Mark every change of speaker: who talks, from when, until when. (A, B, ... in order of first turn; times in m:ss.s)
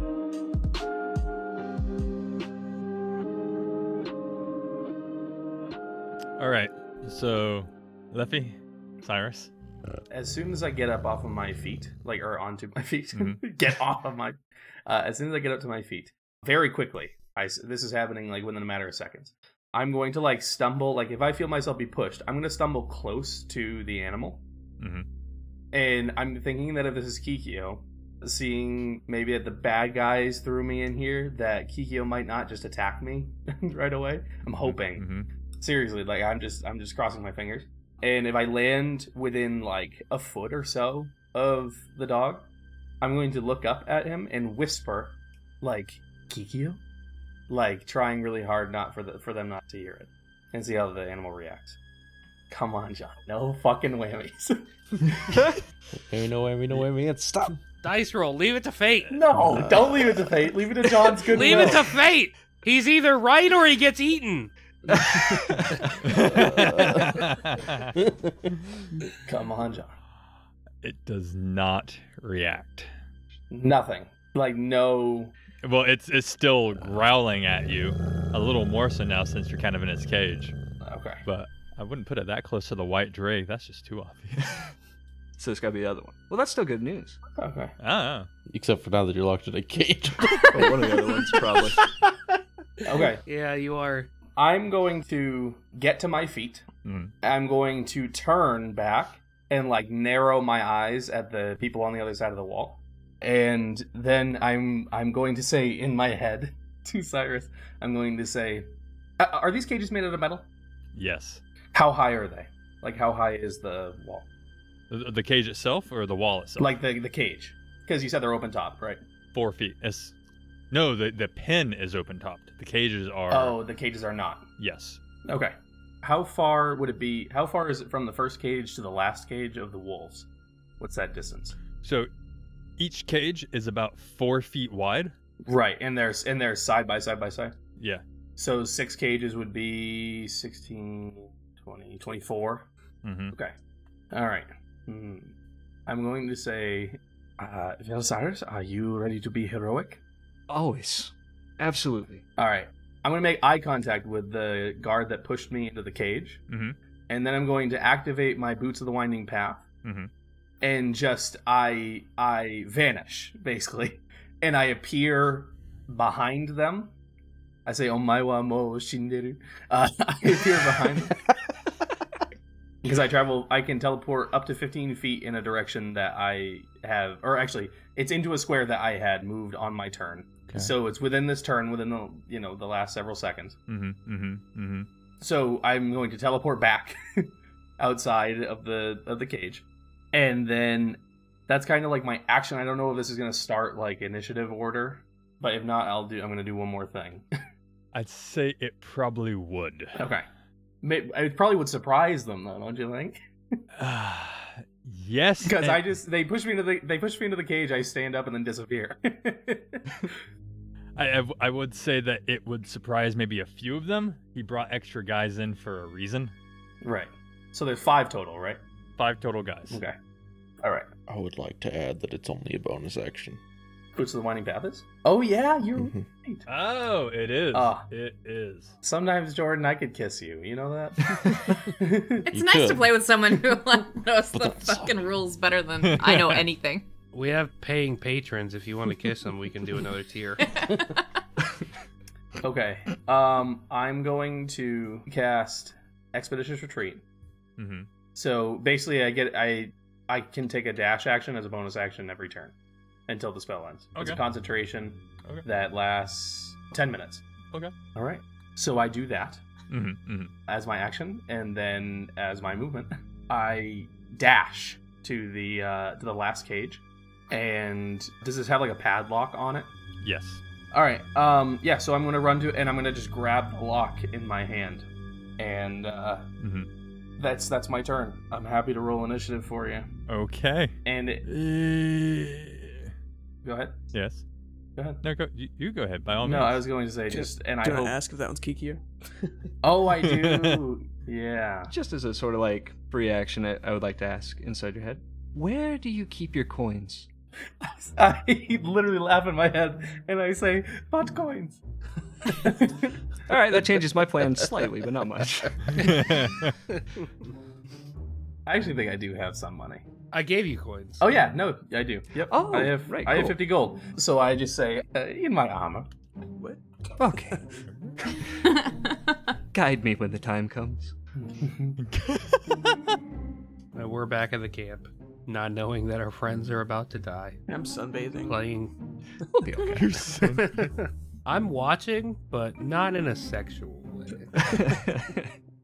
0:06.4-0:09.5 A
0:10.1-0:24.4 B
0:13.1-0:13.4 A
0:24.8-0:25.1 A
0:25.7-0:35.0 B
0:34.6-0:35.3 A
0:35.6-0:42.5 B
0:43.0-0:46.8 B
0:47.5-0:51.8 B
0:52.5-0:55.1 B
0:56.1-0:57.6 C
0:57.8-0:59.3 D
0:59.1-1:01.9 B
0:59.4-1:00.2 C
1:01.3-1:04.5 D
1:04.9-1:05.9 E
1:06.0-1:08.0 A
1:06.2-1:07.2 C
1:09.1-1:10.0 B
1:10.8-1:12.9 A
1:13.5-1:15.3 B
1:15.6-1:20.6 A
1:20.8-1:21.2 B
1:21.2-1:24.6 A
1:25.4-1:27.2 E
1:27.4-1:27.7 B
1:27.8-1:28.3 A
1:28.5-1:30.7 C
1:30.5-1:31.9 E
1:32.8-1:33.2 B
1:32.9-1:34.1 D
1:34.4-1:36.7 B
1:36.8-1:37.1 A
1:37.2-1:48.7 B
1:49.2-1:50.5 B
1:51.0-1:51.4 A
1:51.7-1:54.3 B
1:54.9-1:56.8 A
1:56.6-1:59.0 B
1:59.3-2:00.1 A
2:00.7-2:03.6 A
2:03.3-2:04.5 B
2:04.6-2:05.0 A
2:05.3-2:10.3 B
2:10.8-2:11.6 B
2:11.8-2:12.1 A
2:12.8-2:15.2 A
2:15.4-2:17.5 B
2:17.8-2:18.0 A
2:18.4-2:22.7 B
2:23.0-2:23.4 A
2:24.1-2:25.3 B
2:25.9-2:30.0 B
2:30.5-2:32.2 E
2:32.4-2:36.4 B
2:36.5-2:36.8 A
2:37.1-2:39.6 B
2:39.8-2:40.1 A
2:40.6-2:46.9 B
2:47.7-2:51.2 B
2:52.8-3:03.6 B
3:03.7-3:04.9 A
3:05.2-3:17.2 B
3:17.9-3:20.0 A
3:20.0-3:20.3 B
3:20.8-3:23.2 B
3:23.8-3:25.9 A
3:25.4-3:30.2 B
3:31.0-3:36.3 A
3:36.8-3:38.6 B
3:39.0-3:39.8 A
3:39.7-3:40.0 B
3:40.6-3:40.9 B
3:41.1-3:43.4 C
3:44.0-3:46.5 B
3:46.5-3:48.8 A
3:47.5-3:47.9 B
3:48.8-3:52.3 B
3:52.3-3:53.0 C
3:52.3-3:56.9 F
3:54.4-3:54.9 C
3:55.8-3:56.4 A
3:57.1-4:00.4 D
4:00.4-4:01.0 F
4:02.4-4:07.0 B
4:07.6-4:07.9 A
4:08.2-4:12.5 B
4:13.1-4:17.2 B
4:14.0-4:14.2 A
4:18.0-4:19.4 B
4:19.7-4:20.3 A
4:20.5-4:29.7 B
4:30.0-4:30.4 A
4:30.7-4:34.9 B
4:35.4-4:36.3 B
4:36.4-4:36.7 A
4:37.2-4:39.9 B
4:40.1-4:42.9 A
4:40.8-4:41.3 B
4:43.4-4:43.8 B
4:43.9-4:44.2 A
4:44.8-4:45.0 B
4:45.0-4:46.6 A
4:46.2-4:48.0 B
4:47.1-4:48.8 G
4:49.6-4:51.7 B
4:50.0-4:50.6 A
4:51.7-4:57.1 E
4:57.6-5:01.6 B
5:02.2-5:02.9 B
5:03.3-5:05.8 E
5:05.7-5:06.6 A
5:08.5-5:09.8 B
5:10.1-5:11.0 D
5:11.0-5:15.9 B
5:12.2-5:13.4 E
5:16.4-5:16.6 G
5:17.0-5:17.4 E
5:17.4-5:18.0 A
5:18.4-5:19.0 F
5:19.5-5:20.9 E
5:21.2-5:21.8 B
5:21.8-5:22.9 A
5:23.7-5:27.4 D
5:27.5-5:28.5 G
5:28.2-5:28.7 D
5:29.3-5:30.0 E
5:29.7-5:30.7 A
5:30.2-5:34.8 D
5:34.4-5:35.2 E